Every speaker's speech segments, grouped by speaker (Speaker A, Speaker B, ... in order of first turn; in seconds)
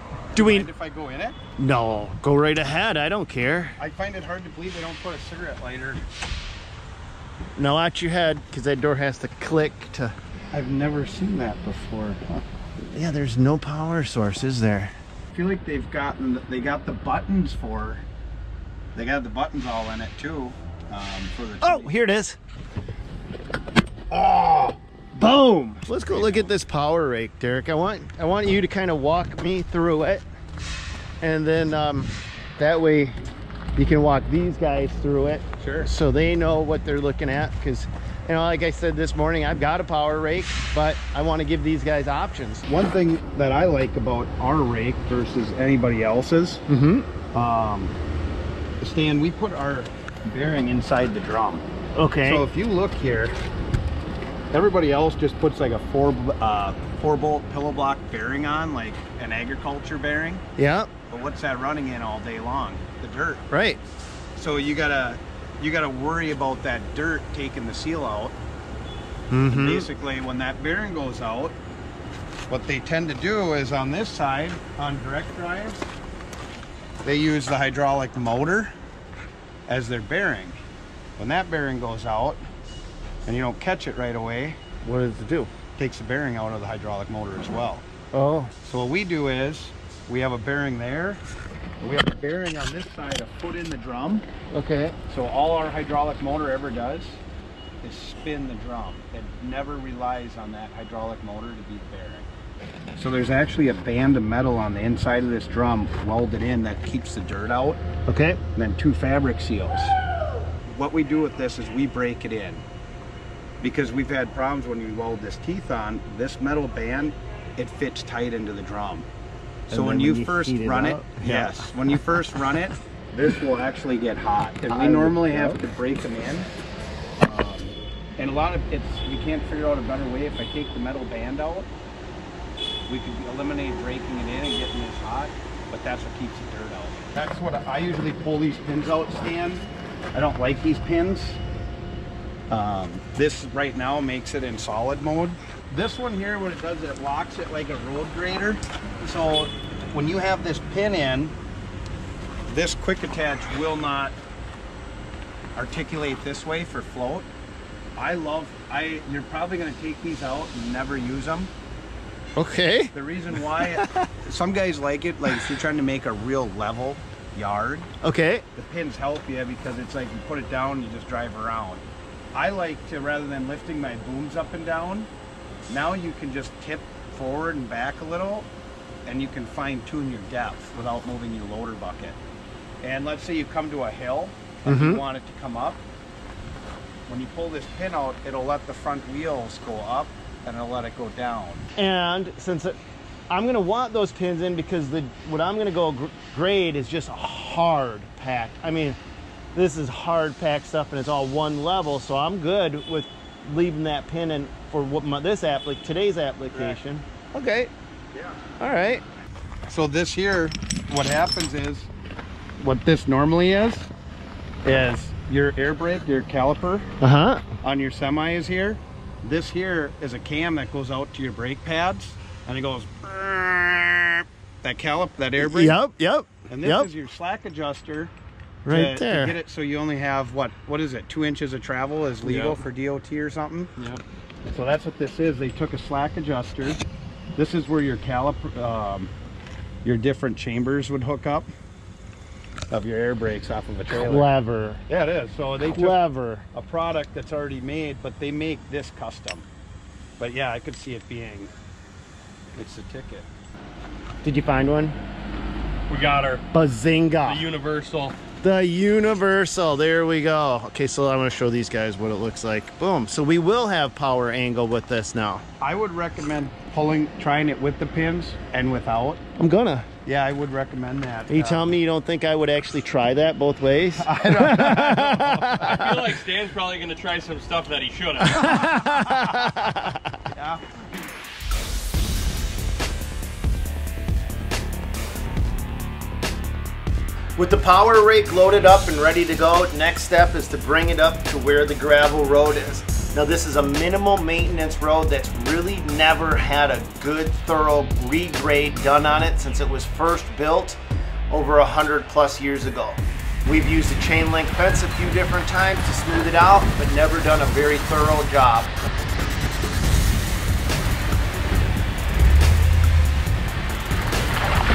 Speaker A: 0.3-1.4, 3.8-6.0, 10.5-12.4, 15.3-18.0, 18.9-21.9, 24.1-24.8, 26.1-26.5, 35.6-35.9, 42.6-46.6, 47.3-48.0, 48.8-51.7, 52.2-53.4, 54.5-60.4, 61.1-63.5, 64.3-68.4, 69.5-71.6, 72.5-75.8, 77.0-78.7, 79.7-80.6, 81.2-82.4, 83.2-84.6, 85.7-87.8, 88.6-91.2, 91.8-94.2, 95.1-97.2, 97.8-102.3, 103.0-107.8, 108.5-110.0, 110.6-112.7, 113.6-119.1, 119.7-126.5, 127.2-131.7, 132.9-141.4, 142.5-151.3, 152.5-154.2, 155.5-157.3, 157.9-161.5, 162.9-167.9, 168.5-175.1, 175.7-178.5, 179.0-182.2, 182.8-185.8, 187.1-191.6, 209.7-211.9, 212.6-213.9, 214.6-216.9, 217.6-225.8, 226.5-228.1, 228.7-233.8, 234.5-236.8, 237.3-239.1, 239.8-241.5, 242.7-244.3, 244.9-246.0, 246.5-249.5, 250.2-251.5, 252.5-253.3, 265.6-269.2, 270.0-271.8, 274.0-275.6, 278.9-279.6, 280.3-280.9
Speaker B: 0.3-0.7, 1.6-3.8, 7.5-10.2, 12.8-14.9, 21.6-22.4, 25.1-30.2, 31.2-33.2, 33.8-42.6, 46.7-47.1, 52.0-52.5, 60.6-60.9, 63.5-63.8, 69.3-69.9, 84.8-85.5, 88.1-88.5, 94.5-95.0, 108.1-108.4, 119.7-121.7, 124.7-125.6, 162.3-162.9, 163.6-164.1, 168.0-168.4, 184.6-185.0, 191.8-192.8, 193.3-199.0, 199.5-207.7, 208.6-209.0, 217.0-217.5, 225.4-226.9, 228.6-229.3, 244.0-244.8, 245.6-246.4, 254.2-255.0, 256.5-257.4, 258.4-265.4, 269.4-269.9, 271.3-276.0, 278.2-280.3, 287.4-308.7
Speaker C: 232.3-232.6, 255.9-256.4, 257.2-258.2, 275.4-278.8